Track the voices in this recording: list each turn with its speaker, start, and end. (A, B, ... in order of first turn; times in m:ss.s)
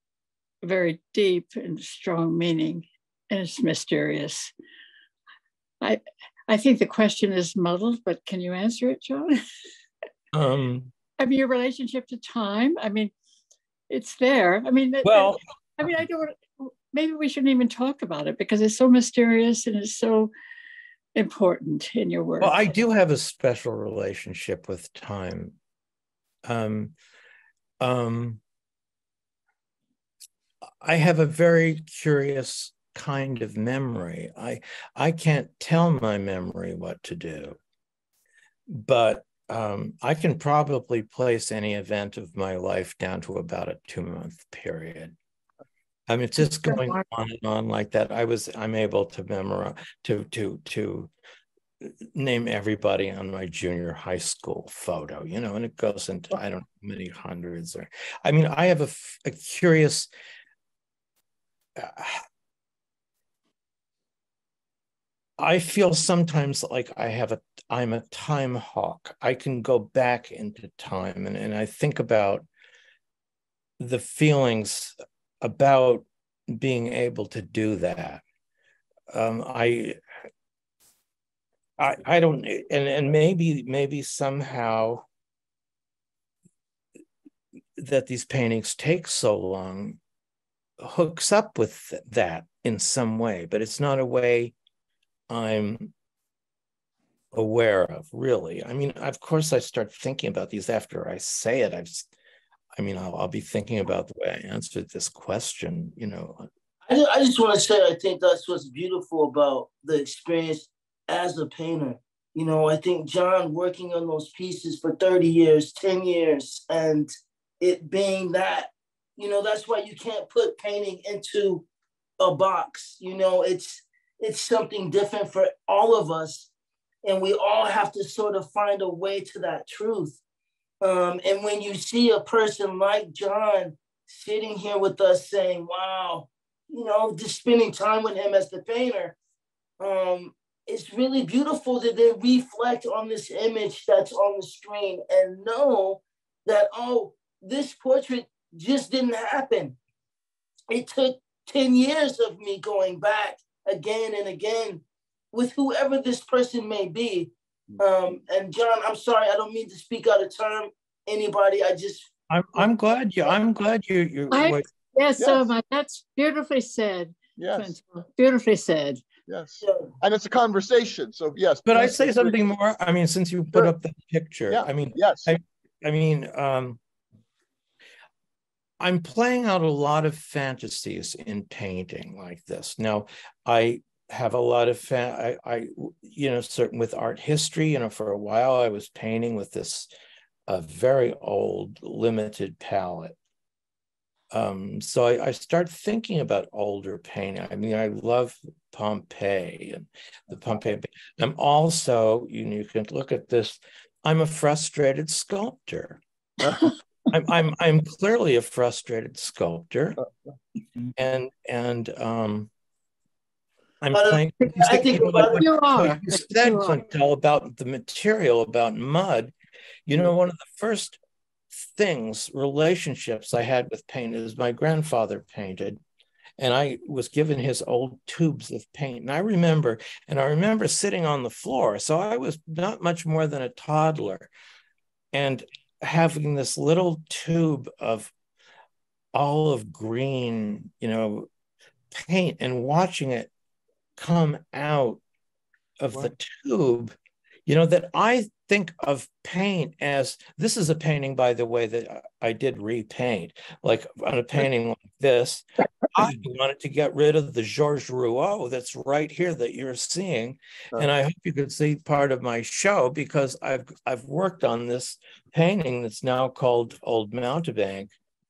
0:00.6-0:04.5 A
0:05.8-0:09.4 A
0:10.3-0:10.9 B
0:11.2-0:13.1 A
0:13.9-0:20.3 A
0:15.0-0:15.4 B
0:21.2-0:22.6 A
0:22.4-0:25.6 B
0:26.4-0:27.0 B
0:27.8-0:28.4 B
0:30.8-0:37.6 B
0:38.7-0:45.2 B
0:46.1-0:51.1 B
0:51.8-1:00.1 B
1:01.8-1:02.2 B
1:05.4-1:12.4 B
1:13.8-1:18.2 B
1:19.1-1:20.0 B
1:21.8-1:25.1 B
1:27.8-1:30.0 B
1:30.8-1:34.5 B
1:35.3-1:35.9 B
1:37.3-1:42.1 B
1:42.7-1:46.5 B
1:46.9-2:01.7 C
2:02.2-2:06.5 C
2:07.0-2:10.2 C
2:10.8-2:19.2 C
2:19.8-2:29.8 C
2:30.7-2:42.1 C
2:42.3-2:44.7 B
2:44.3-2:49.0 A
2:45.2-2:45.5 D
2:47.4-2:47.7 D
2:49.3-2:52.4 D
2:49.6-2:49.9 C
2:51.7-2:56.8 B
2:54.5-2:55.4 D
2:58.8-3:09.9 B
3:10.5-3:13.2 B
3:14.3-3:26.0 B
3:26.4-3:26.7 D
3:27.1-3:30.0 B
3:31.0-3:32.5 B
3:33.8-3:39.3 B
3:33.9-3:35.5 C
3:35.4-3:36.8 A
3:39.9-3:41.0 B
3:41.6-3:45.8 B
3:46.4-3:54.3 B
3:55.1-3:58.1 B
3:59.1-4:01.3 B
4:01.9-4:03.3 B
4:04.0-4:05.0 B
4:05.8-4:07.0 B
4:07.5-4:27.9 B